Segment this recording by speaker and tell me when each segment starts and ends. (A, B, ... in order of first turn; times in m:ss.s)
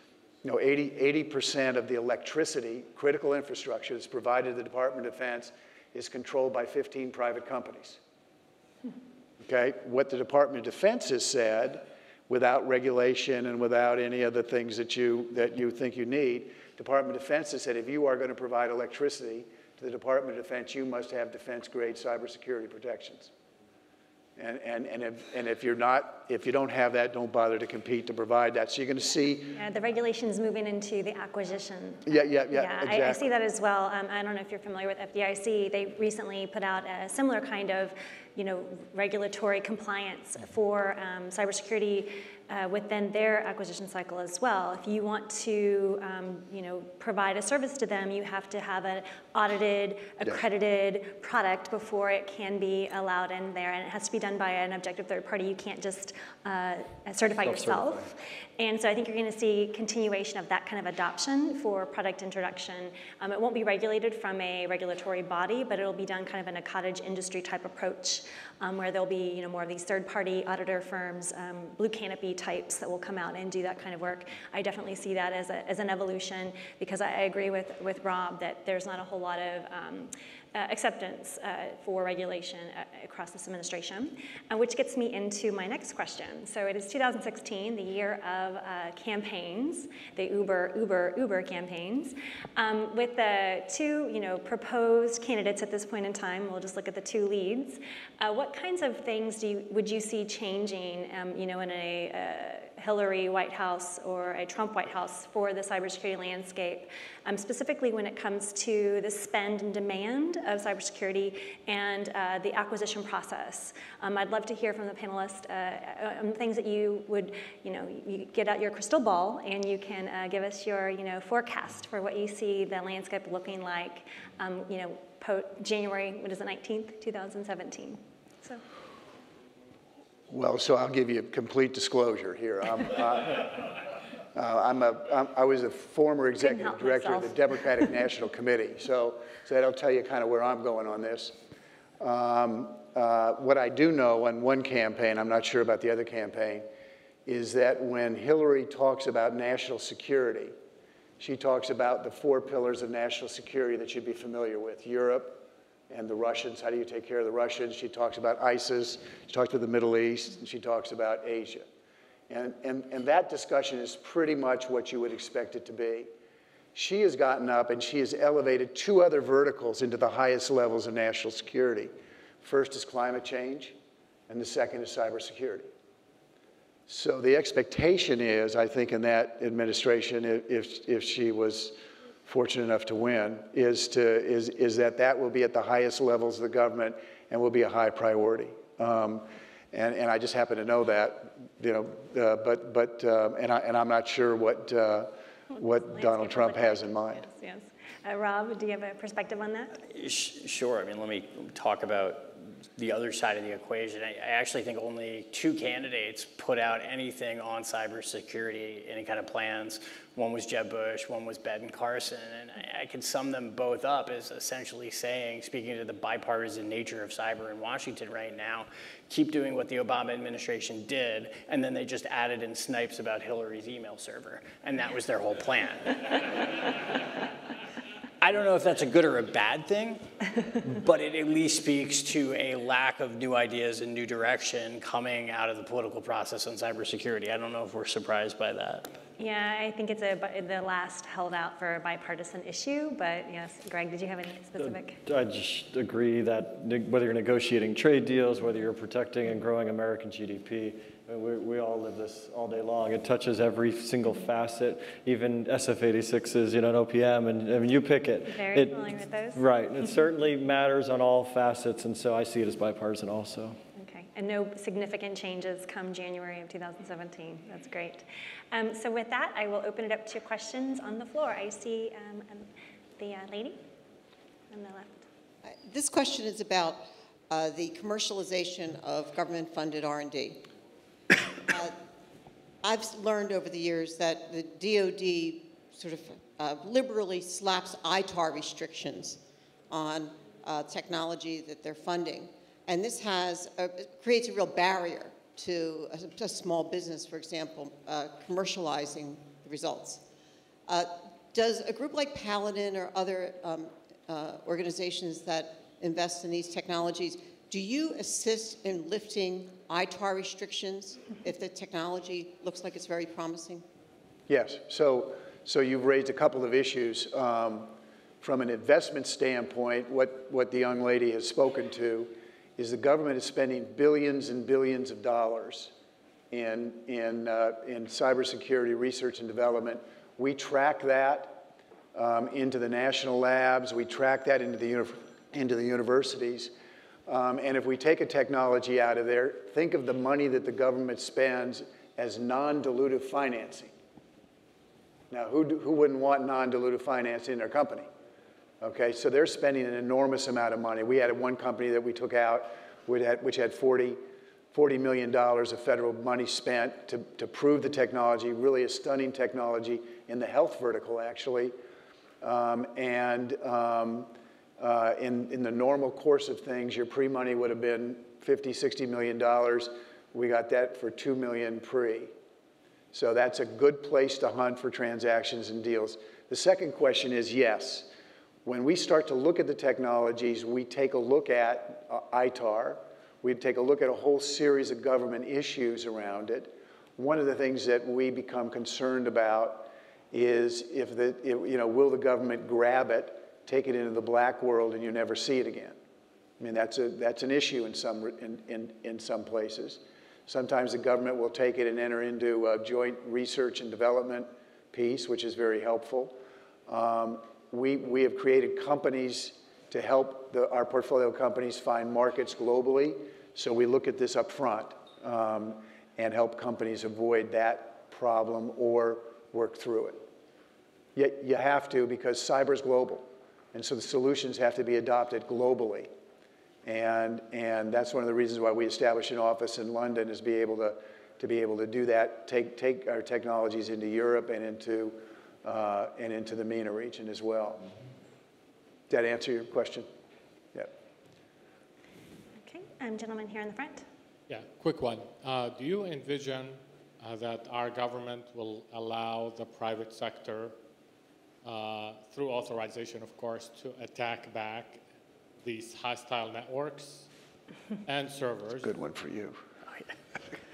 0:00.4-0:08.0 A
0:09.4-0:23.3 A
0:24.4-0:29.6 A
0:29.5-2:08.6 B
0:32.1-0:33.3 A
0:57.4-0:57.8 C
2:10.3-2:21.4 A
2:16.4-2:17.3 B
2:22.0-2:26.7 A
2:27.2-2:30.5 A
2:31.2-2:41.7 A
2:42.3-2:46.1 A
2:46.7-2:53.8 A
2:54.3-2:55.7 A
2:56.9-3:17.2 A
3:15.9-3:19.8 B
3:19.9-3:46.9 D
3:48.2-3:59.0 D
3:59.2-4:05.0 B
4:04.6-4:23.6 C
4:18.3-4:19.4 B
4:23.8-4:33.6 B
4:34.5-4:35.1 B
4:35.4-4:40.4 E
4:41.5-4:41.8 E
4:42.6-5:00.0 E
5:00.7-5:13.6 E
5:14.3-5:25.7 A
5:26.3-5:36.5 A
5:37.1-5:43.7 A
5:45.1-5:47.9 A
5:48.6-5:54.0 A
5:54.5-6:01.5 A
6:02.2-6:12.1 A
6:12.9-6:17.9 A
6:18.4-6:35.8 A
6:36.4-6:46.2 A
6:46.7-7:00.1 A
7:00.9-7:05.9 A
7:06.6-7:17.7 A
7:18.9-7:19.9 A
7:22.4-7:23.8 B
7:24.3-7:30.6 F
7:31.4-7:34.8 F
7:35.4-7:37.1 F
7:37.8-7:38.7 F
7:38.6-7:39.4 A